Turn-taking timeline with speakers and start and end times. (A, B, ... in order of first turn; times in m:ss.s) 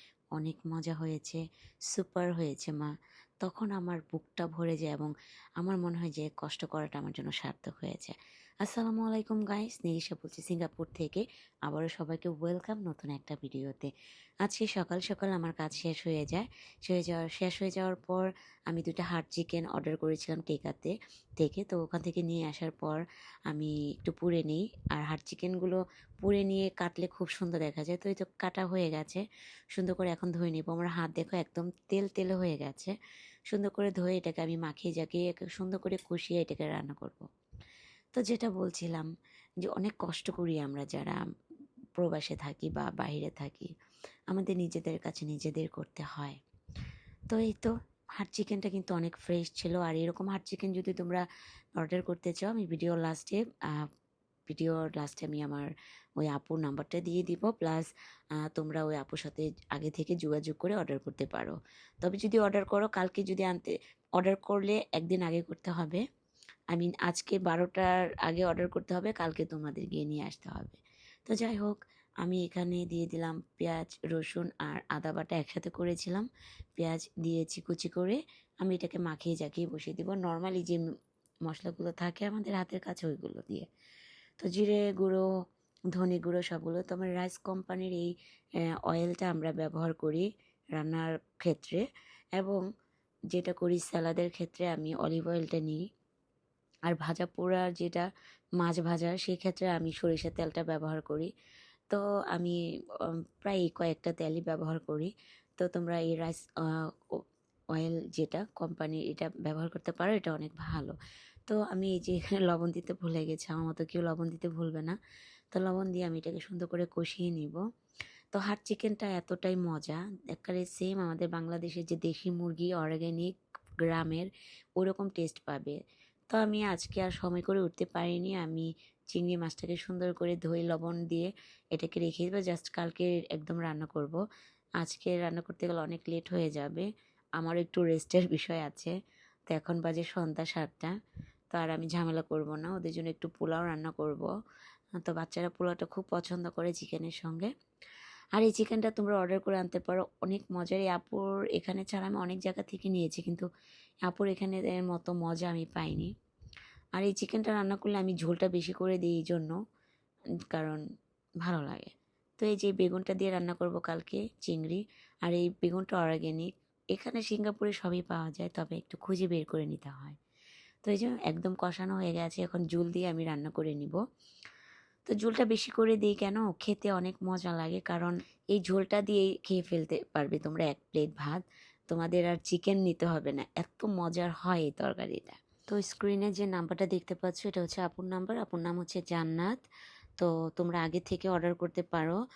0:00.4-0:01.4 A
0:01.9-0:02.9 A
0:03.4-0:13.9 A
0:14.4-0:29.2 A
0:29.8-0:32.9 A
0:33.5-0:37.3 A
0:38.2-0:39.1 A
0:39.6-0:41.2 A
0:42.0-0:43.7 A
0:44.3-0:46.4 A
0:47.3-0:51.2 A
0:51.8-0:53.9 A
0:54.5-0:57.9 A
0:58.4-1:06.0 A
1:06.7-1:20.8 A
1:21.5-1:23.7 A
1:24.4-1:25.2 A
1:25.9-1:28.1 A
1:28.8-1:31.8 A
1:33.3-1:35.8 A
1:36.9-1:38.1 A
1:38.6-1:41.3 A
1:41.9-1:42.6 A
1:43.1-1:46.4 A
1:47.8-1:50.9 A
1:51.5-1:55.0 A
1:55.5-1:57.6 A
1:58.3-2:05.8 A
2:06.3-2:14.2 A
2:14.8-2:16.9 A
2:17.4-2:18.9 A
2:19.5-2:20.9 A
2:21.5-2:24.3 A
2:25.0-2:27.5 A
2:28.4-2:33.5 A
2:34.1-2:36.1 A
2:37.0-2:39.6 A
2:40.5-2:40.8 A
2:41.4-2:50.2 A
2:50.8-2:54.0 A
2:55.1-3:09.6 A
3:10.2-3:12.2 A